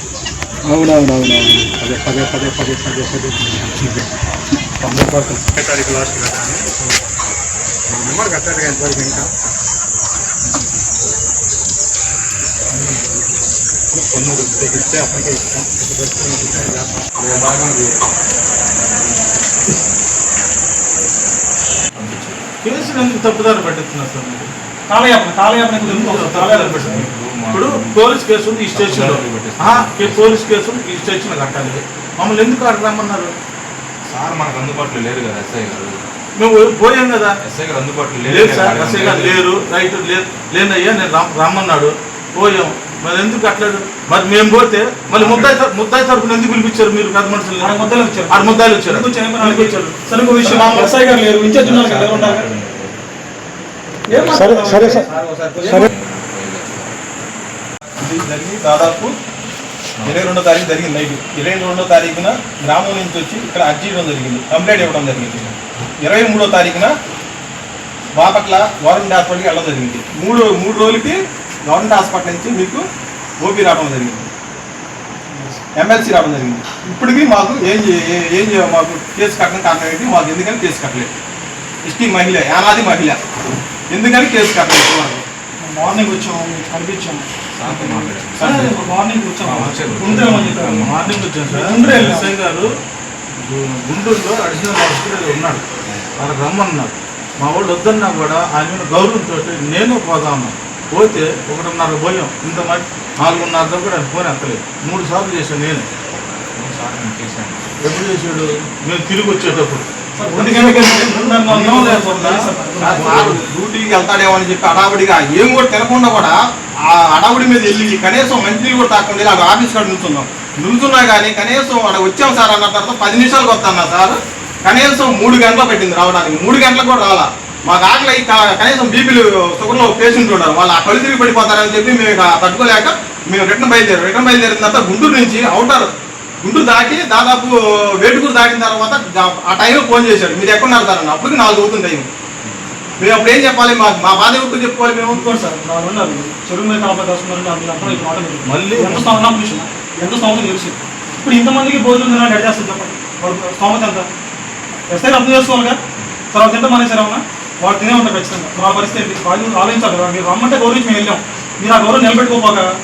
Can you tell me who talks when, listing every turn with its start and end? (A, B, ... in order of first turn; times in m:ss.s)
0:00.7-0:04.1 A
0:04.8-0:06.8 A
0:07.9-0:09.3 A
0:13.9-0:17.0 A
0:17.2-0:18.0 B
0:22.0-0:23.1 B
0:22.6-0:24.5 C
0:24.9-0:27.0 D
0:25.8-0:33.4 C
0:26.9-0:28.0 B
0:28.7-0:30.4 B
0:34.1-0:36.0 B
0:36.4-0:37.4 C
0:37.4-0:39.4 B
0:38.3-0:50.9 C
0:45.2-0:45.6 B
0:47.6-0:52.5 D
0:50.5-0:51.0 E
0:51.6-0:53.0 B
0:54.1-0:55.9 D
0:54.3-0:55.1 A
0:54.3-0:55.9 E
0:55.7-0:57.0 B
0:58.0-0:59.1 E
1:00.0-1:00.2 B
1:00.0-1:06.9 E
1:05.1-1:05.5 B
1:08.2-1:12.9 E
1:13.4-1:14.3 E
1:15.3-1:15.6 D
1:15.8-1:21.1 E
1:21.9-1:23.2 E
1:23.9-1:25.3 E
1:25.6-1:30.9 D
1:27.6-1:28.9 B
1:28.4-1:28.6 E
1:29.4-1:31.3 B
1:30.7-1:32.7 C
1:31.4-1:32.3 D
1:33.4-1:35.6 C
1:35.9-1:36.1 B
1:36.2-1:45.9 C
1:46.6-1:47.8 B
1:47.8-1:53.4 C
1:50.2-1:53.1 D
1:50.3-1:51.2 E
1:52.8-2:15.9 E
2:16.4-2:22.1 E
2:23.0-2:25.3 E
2:25.1-2:34.1 D
2:27.8-2:29.2 C
2:34.9-2:35.8 D
2:36.3-2:42.7 D